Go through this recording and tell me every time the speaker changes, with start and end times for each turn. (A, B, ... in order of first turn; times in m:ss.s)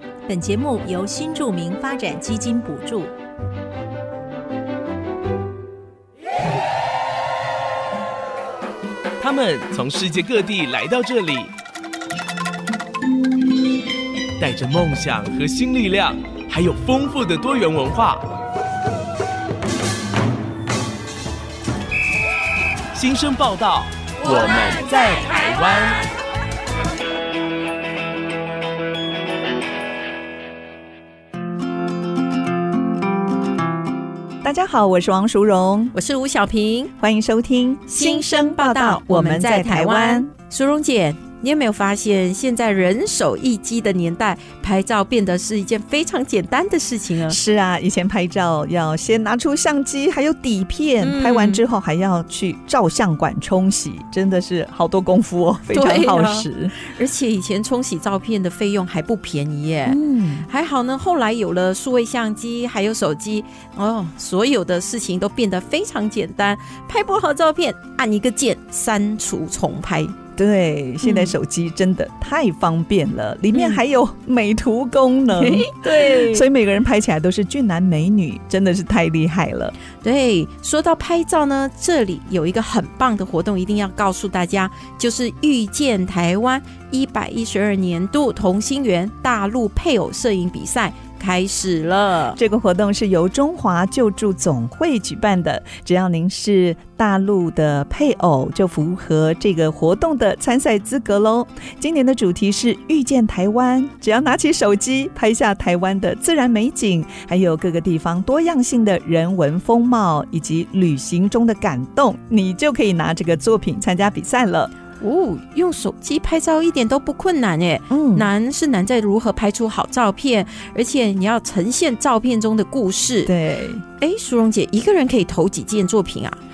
0:00.2-0:03.1 A
0:09.2-0:11.5 B
0:14.4-0:18.2 B
0:22.9-0:26.0 B
0:24.8-0:25.3 C
0:34.4-0:35.9 C
0:35.9-0:36.9 D
0:37.0-0:40.3 C
0:37.9-0:47.4 D
0:47.3-0:56.7 C
0:51.0-0:51.6 D
0:55.7-1:10.1 D
0:59.8-1:00.4 C
1:10.4-1:19.7 C
1:11.0-1:11.3 D
1:13.5-1:13.8 D
1:15.3-1:16.5 D
1:20.0-1:32.4 D
1:32.4-1:54.7 C
1:55.0-2:03.3 D
1:57.9-1:58.3 C
2:03.2-2:03.8 C
2:04.0-2:06.4 D